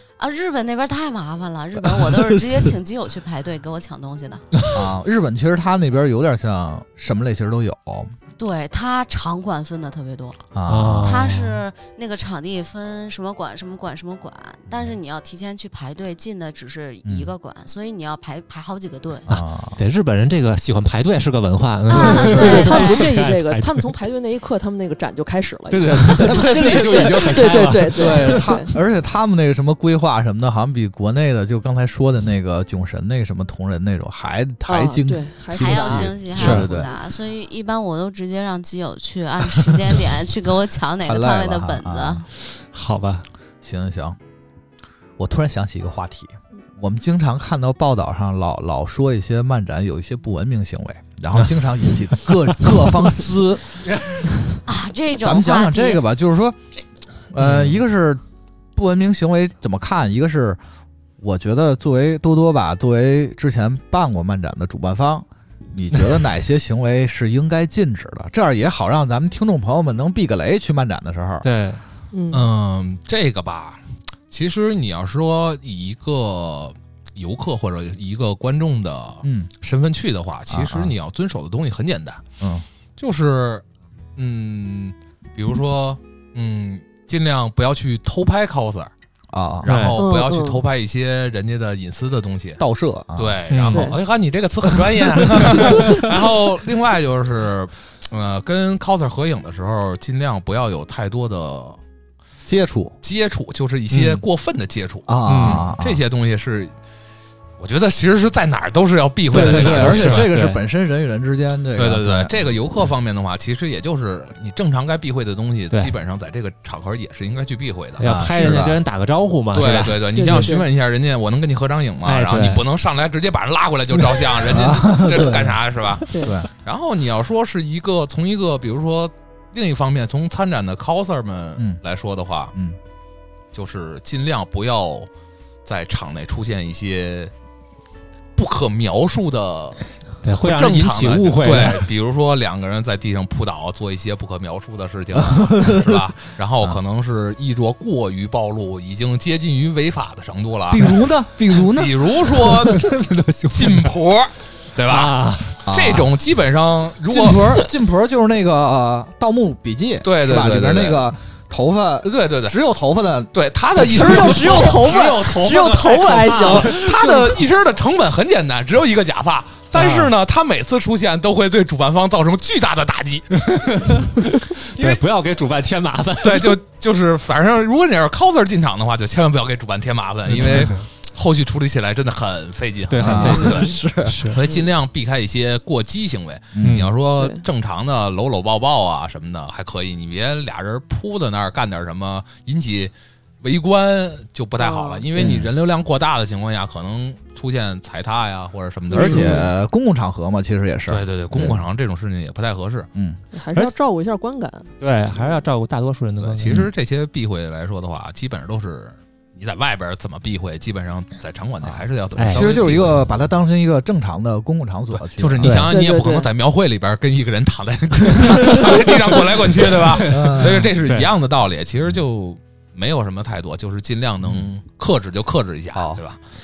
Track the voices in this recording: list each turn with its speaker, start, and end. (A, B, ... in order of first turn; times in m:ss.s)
0:00.2-0:04.4 A
0:01.8-0:02.7 B
0:04.7-0:08.1 B
0:08.4-0:10.4 A
0:10.5-0:11.2 B
0:10.7-0:11.6 C
0:11.0-0:19.3 A
0:17.0-0:17.3 B
0:19.3-0:19.8 B
0:19.8-0:23.9 C
0:21.9-0:23.1 A
0:21.9-0:28.7 D
0:22.2-0:22.7 B
0:25.7-0:28.6 C
0:26.5-0:27.6 A
0:27.9-0:36.9 B
0:34.7-0:36.3 D
0:35.5-0:42.2 A
0:36.3-0:36.7 C
0:41.0-0:42.3 B
0:42.6-0:43.2 C
0:43.6-0:44.2 B
0:45.2-0:53.8 B
0:52.2-0:52.8 C
0:54.6-0:56.0 A
0:55.2-0:56.6 B
0:57.3-0:58.2 B
0:57.4-0:57.8 C
0:58.7-1:00.6 B
1:01.2-1:11.4 B
1:11.4-1:11.8 C
1:12.1-1:12.4 D
1:12.3-1:22.2 E
1:19.2-1:19.5 B
1:20.5-1:20.9 B
1:22.4-1:22.6 B
1:23.0-1:23.6 E
1:24.2-1:28.9 E
1:29.3-1:29.6 B
1:29.6-1:32.6 E
1:29.6-1:30.0 C
1:30.0-1:30.6 D
1:32.6-1:33.4 B
1:33.2-1:41.8 E
1:33.5-1:33.9 C
1:33.7-1:34.0 D
1:35.3-1:35.9 B
1:42.4-1:43.0 B
1:43.0-1:46.7 E
1:43.9-1:44.2 C
1:45.1-1:46.0 B
1:45.2-1:45.6 C
1:47.6-1:50.3 E
1:49.3-1:52.4 B
1:49.3-1:50.6 C
1:51.7-1:58.6 E
1:58.0-2:00.5 C
1:58.0-1:58.8 B
1:59.5-2:06.1 E
2:00.2-2:00.6 D
2:02.0-2:02.6 C
2:04.4-2:05.6 B
2:06.1-2:06.3 D
2:06.1-2:06.5 B
2:06.6-2:12.5 E
2:13.5-2:15.1 E
2:15.6-2:17.3 E
2:18.4-2:19.9 E
2:20.2-2:21.9 C
2:20.4-2:30.9 E
2:25.2-2:26.0 B
2:30.7-2:32.2 B
2:31.6-2:32.9 E
2:32.5-2:33.9 C
2:33.5-2:37.6 E
2:34.9-2:35.6 C
2:35.6-2:36.1 B
2:37.1-2:47.4 B
2:40.0-2:41.1 E
2:42.0-2:42.6 E
2:43.3-2:53.3 E
2:44.0-2:46.8 D
2:49.7-2:50.1 C
2:53.3-2:56.6 C
2:56.2-3:03.7 E
3:00.3-3:00.8 C
3:00.4-3:00.7 B
3:02.9-3:04.4 C
3:03.0-3:04.3 B
3:04.2-3:19.5 E
3:06.5-3:06.9 B
3:06.6-3:06.9 C
3:07.2-3:07.4 D
3:14.6-3:15.3 D
3:15.2-3:15.5 B
3:18.9-3:19.5 D
3:18.9-3:21.6 B
3:20.9-3:22.9 E
3:22.9-3:23.2 B
3:23.3-3:25.4 D
3:24.8-3:26.7 C
3:26.2-3:26.6 B
3:26.4-3:33.0 E
3:31.6-3:35.7 B
3:32.2-3:32.5 C
3:34.9-3:46.2 E
3:35.4-3:35.7 C
3:35.7-3:36.3 D
3:39.8-3:41.1 C
3:40.1-3:40.6 B
3:44.2-3:44.5 B
3:45.7-3:46.0 B